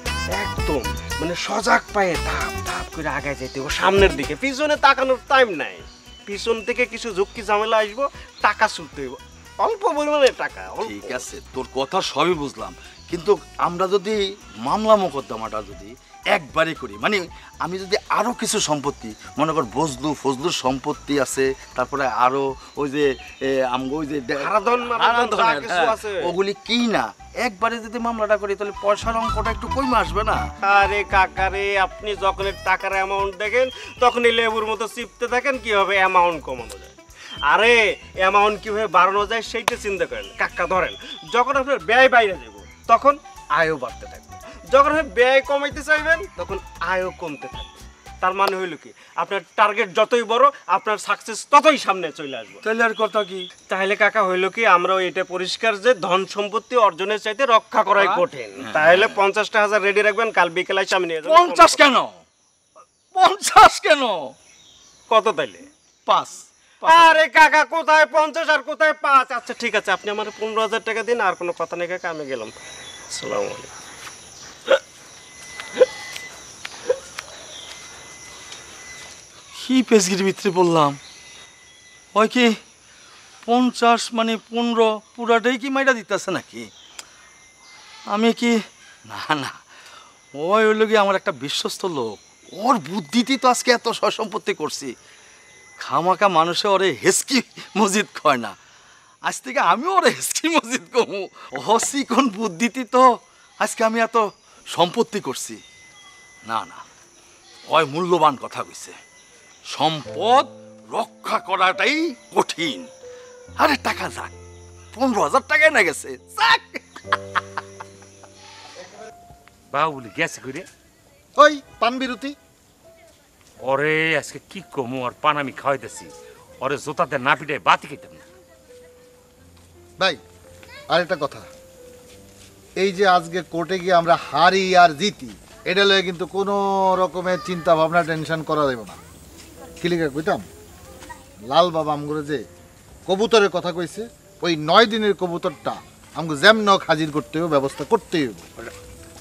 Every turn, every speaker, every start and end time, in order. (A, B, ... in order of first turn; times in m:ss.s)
0:00.2-0:11.2 A
0:10.8-0:30.4 B
0:24.4-0:26.3 A
0:30.6-0:36.9 A
0:37.5-0:52.6 A
0:52.6-0:53.5 B
0:53.7-1:01.9 A
0:58.0-0:59.2 B
1:01.2-1:02.2 B
1:03.1-1:04.3 B
1:05.1-1:05.6 A
1:06.1-1:07.2 B
1:06.8-1:12.5 A
1:13.1-1:13.7 A
1:19.5-1:21.0 B
1:22.1-1:22.5 B
1:23.5-1:26.7 B
1:28.1-1:28.5 B
1:29.1-1:29.6 B
1:30.4-1:34.9 B
1:35.8-1:38.5 B
1:39.3-1:43.0 B
1:43.6-1:45.6 B
1:46.5-1:46.8 B
1:47.7-1:48.9 B
1:49.7-1:52.9 B
1:53.6-1:54.3 B
1:54.9-1:57.2 B
1:59.7-2:00.6 C
2:01.4-2:02.3 D
2:03.6-2:08.2 C
2:10.9-2:11.5 D
2:12.8-2:19.0 D
2:19.8-2:20.4 D
2:21.5-2:22.4 D
2:23.1-2:28.4 D